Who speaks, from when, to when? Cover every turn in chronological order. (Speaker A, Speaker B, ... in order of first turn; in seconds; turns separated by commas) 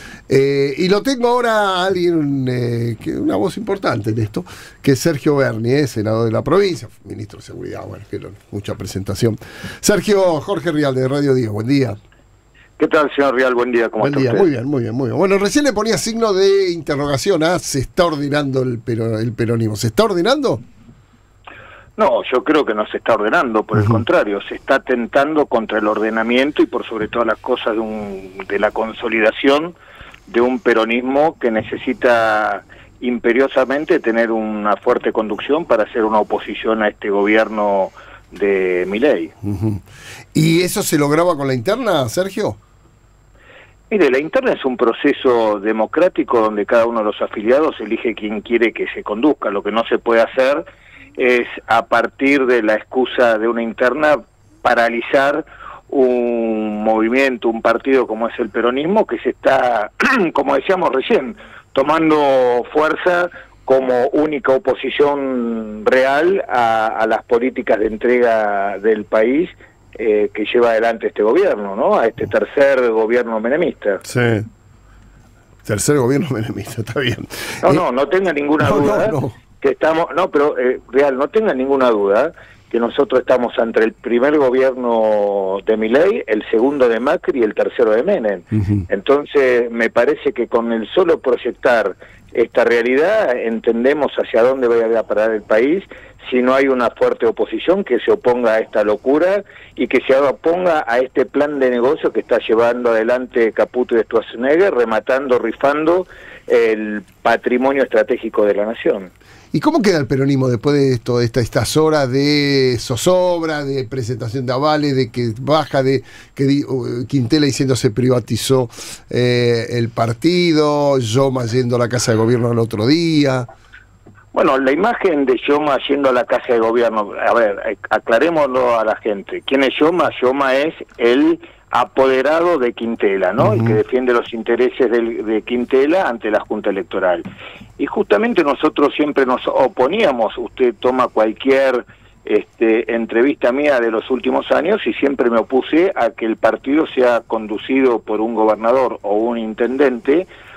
Speaker A: 0.3-12.0, Speaker B: 12.8-14.5, Speaker A: 14.0-20.6, Speaker B: 22.0-29.8, Speaker B: 30.3-39.3, Speaker A: 39.4-42.6, Speaker B: 43.9-50.6, Speaker B: 51.2-74.0, Speaker A: 74.0-74.5, Speaker A: 75.7-77.8, Speaker B: 77.6-109.1, Speaker A: 78.6-79.3, Speaker A: 109.5-123.5, Speaker B: 124.3-137.2, Speaker B: 137.8-150.3